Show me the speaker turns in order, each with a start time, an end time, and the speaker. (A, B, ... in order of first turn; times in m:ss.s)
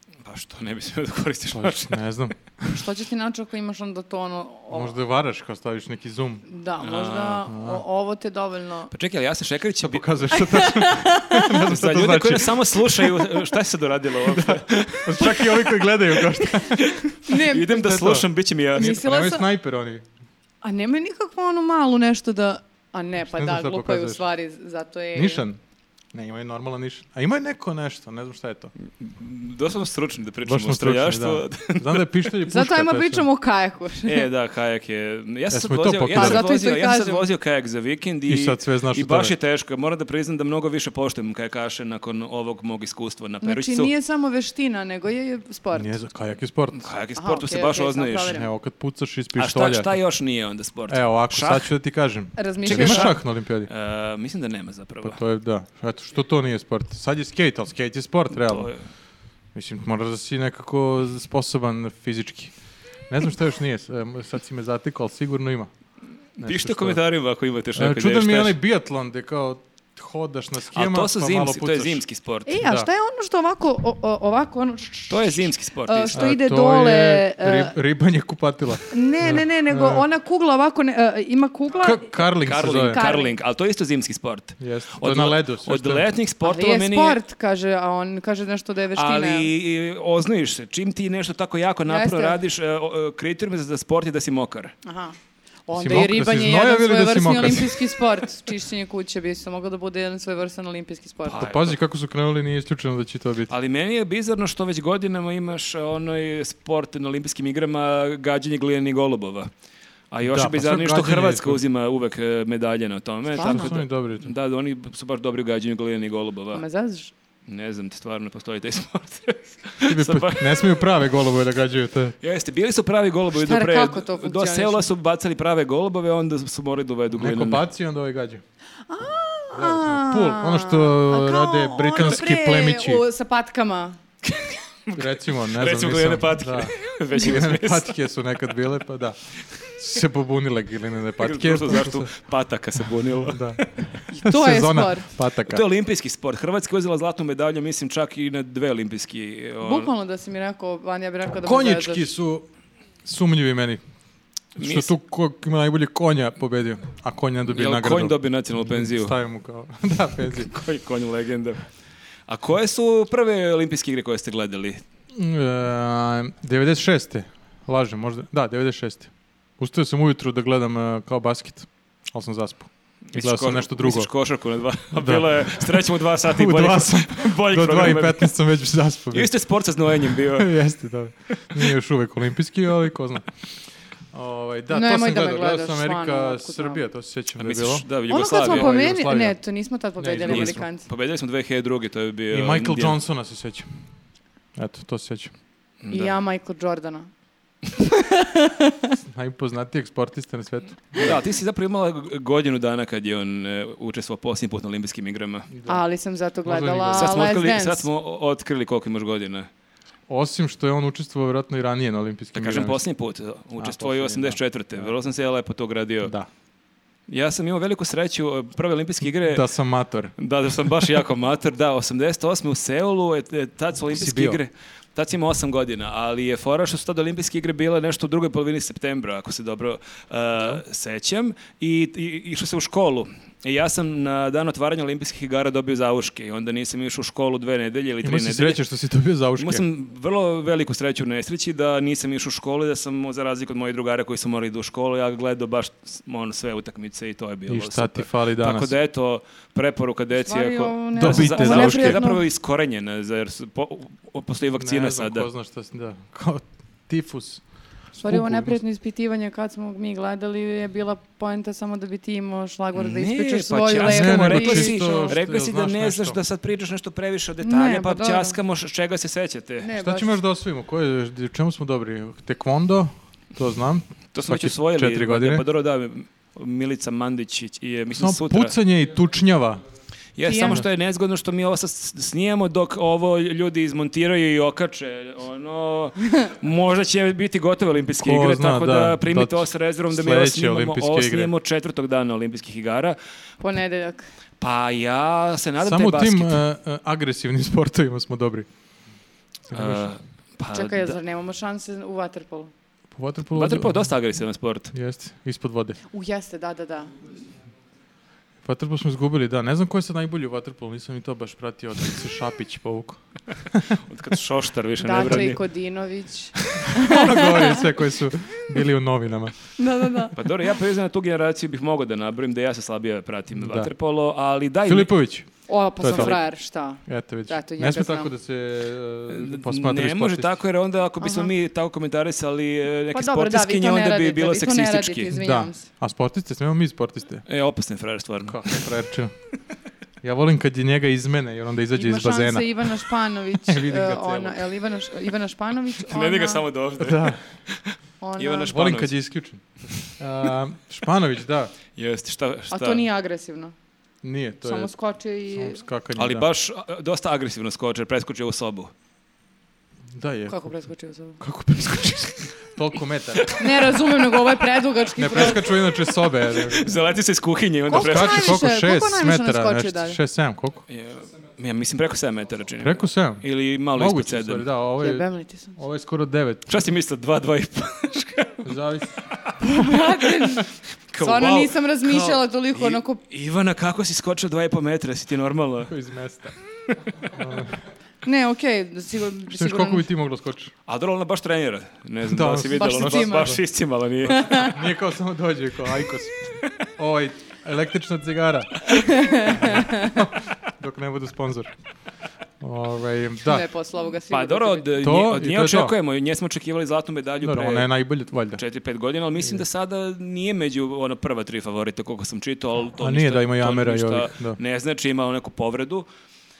0:00.2-0:02.0 A
0:01.5-0:02.8 B
0:02.7-0:04.9 C
0:04.7-0:06.4 B
0:06.4-0:08.9 C
0:06.8-0:07.4 A
0:07.5-0:07.8 B
0:08.9-0:10.4 A
0:09.8-0:13.3 B
0:10.3-0:11.6 C
0:11.6-0:19.0 A
0:14.2-0:20.0 B
0:17.2-0:17.9 C
0:18.7-0:19.4 C
0:20.6-0:25.4 C
0:23.3-0:24.2 B
0:25.1-0:25.6 B
0:26.1-0:28.7 B
0:29.0-0:32.3 A
0:30.4-0:33.2 B
0:32.4-0:34.3 C
0:34.0-0:43.9 A
0:35.5-0:36.4 B
0:36.1-0:37.2 C
0:38.3-0:39.3 B
0:43.4-0:45.9 C
0:45.7-0:46.9 B
0:46.7-0:48.4 A
0:47.2-0:48.5 C
0:48.3-0:49.9 B
0:49.4-0:51.7 A
0:50.9-0:53.7 B
0:52.4-0:53.1 C
0:52.6-0:55.2 A
0:55.0-0:58.7 B
0:58.4-0:58.8 A
0:59.5-1:02.5 B
1:03.1-1:05.7 B
1:06.4-1:07.0 B
1:06.4-1:08.6 A
1:07.7-1:12.0 B
1:10.7-1:12.6 A
1:12.4-1:17.7 C
1:12.6-1:12.9 B
1:15.1-1:16.3 A
1:16.1-1:20.0 B
1:18.9-1:22.1 C
1:21.8-1:23.0 B
1:22.4-1:27.2 A
1:22.9-1:23.3 C
1:24.6-1:26.1 B
1:26.4-1:29.5 C
1:28.9-1:34.7 A
1:31.9-1:32.4 C
1:34.8-1:35.1 C
1:35.7-1:41.5 C
1:35.7-1:37.9 B
1:41.2-1:41.8 A
1:41.4-1:43.5 B
1:43.5-1:49.5 A
1:50.1-1:56.6 A
1:50.2-1:51.6 B
1:53.3-1:53.7 C
1:53.4-1:54.3 B
1:56.5-1:57.1 C
1:57.5-2:00.8 A
1:59.8-2:02.2 B
2:02.2-2:07.6 A
2:03.3-2:04.9 C
2:07.1-2:08.4 B
2:08.9-2:14.0 C
2:09.5-2:13.0 B
2:14.2-2:17.9 A
2:15.0-2:22.1 B
2:21.2-2:23.7 A
2:23.2-2:23.6 B
2:24.1-2:25.1 C
2:24.2-2:25.6 B
2:25.4-2:29.9 A
2:29.6-2:32.1 C
2:31.4-2:32.5 B
2:33.0-2:33.8 B
2:34.6-2:40.5 B
2:34.6-2:34.9 A
2:37.5-2:39.2 A
2:40.3-2:41.6 A
2:42.3-2:44.8 A
2:45.1-2:54.1 B
2:53.1-2:58.3 A
2:54.9-2:55.6 B
2:56.2-2:59.3 B
2:59.1-3:00.6 A
3:00.1-3:03.3 B
3:04.1-3:09.4 B
3:04.7-3:06.8 C
3:07.4-3:08.7 A
3:08.1-3:10.8 C
3:10.0-3:10.6 B
3:10.3-3:13.0 A
3:12.3-3:13.7 B
3:14.6-3:15.3 B
3:15.8-3:16.2 A
3:15.9-3:17.1 C
3:17.8-3:19.0 C
3:19.1-3:21.2 B
3:21.0-3:25.5 A
3:25.5-3:25.8 B
3:25.6-3:27.9 C
3:26.4-3:27.3 B
3:26.9-3:29.5 A
3:30.1-3:32.8 B
3:32.3-3:36.1 A
3:33.6-3:34.9 B
3:36.0-3:36.3 B
3:37.1-3:39.5 A
3:39.2-3:40.1 B
3:40.2-3:58.6 A
3:43.9-3:44.4 B
3:58.0-3:59.6 B
3:59.4-4:15.3 A
4:07.5-4:08.7 B
4:10.1-4:12.2 C
4:11.0-4:12.0 B
4:14.6-4:17.4 B
4:18.0-4:25.2 C
4:18.0-4:18.6 B
4:22.7-4:29.7 A
4:23.8-4:26.2 B
4:27.4-4:28.4 C
4:29.6-4:30.2 C
4:29.8-4:35.4 B
4:34.1-4:38.5 A
4:37.9-4:39.6 B
4:40.2-4:53.0 A
4:40.2-4:40.6 C
4:48.0-4:51.3 B
4:53.4-4:54.0 C
4:54.4-4:56.4 A
4:55.6-4:58.5 B
4:59.5-4:59.9 B
4:59.5-5:01.0 A
5:00.5-5:02.5 C
5:02.9-5:03.9 B
5:03.3-5:04.7 A
5:04.7-5:05.8 B
5:05.9-5:07.0 C
5:08.4-5:13.0 B
5:13.5-5:13.8 B
5:13.9-5:15.4 A
5:14.8-5:17.7 C
5:16.4-5:16.7 A
5:16.8-5:20.1 B
5:19.6-5:20.1 C
5:20.1-5:24.9 A
5:23.3-5:23.7 B
5:24.6-5:26.2 B
5:25.5-5:28.1 C
5:25.9-5:26.2 A
5:26.8-5:30.4 B
5:29.1-5:35.1 A
5:31.0-5:31.3 C
5:32.9-5:35.7 C
5:35.1-5:37.2 B
5:37.2-5:38.7 A
5:38.2-5:39.1 B
5:40.0-5:42.8 B
5:41.7-5:46.4 C
5:43.4-5:44.5 B
5:45.8-5:48.9 A
5:46.8-5:47.2 B
5:48.0-5:48.6 C
5:48.5-5:49.4 B
5:50.0-5:51.5 B
5:51.8-5:52.8 A
5:52.5-5:53.5 C
5:54.0-5:54.7 B
5:54.4-5:55.6 C
5:55.3-5:56.3 B
5:56.0-5:58.7 A
5:59.9-6:00.5 B
6:00.3-6:01.2 C
6:01.2-6:03.4 B
6:03.2-6:03.5 A
6:03.4-6:05.5 C
6:05.0-6:06.8 B
6:06.4-6:08.4 A
6:07.7-6:10.0 C
6:07.7-6:10.6 B
6:10.7-6:14.4 A
6:12.6-6:16.4 B
6:14.8-6:15.6 C
6:16.5-6:18.4 A
6:18.4-6:19.0 B
6:19.4-6:23.0 C
6:20.9-6:25.7 A
6:25.6-6:26.4 B
6:27.1-6:27.6 B
6:28.0-6:29.8 C
6:29.3-6:30.5 B
6:30.7-6:34.5 A
6:32.0-6:33.4 B
6:32.6-6:33.4 C
6:34.1-6:34.5 C
6:34.4-6:41.5 B
6:38.8-6:40.0 C
6:42.4-6:43.5 B
6:43.2-6:44.7 C
6:44.1-6:47.7 A
6:44.8-6:45.7 B
6:47.2-6:48.4 B
6:48.4-6:55.8 A
6:52.8-6:54.4 B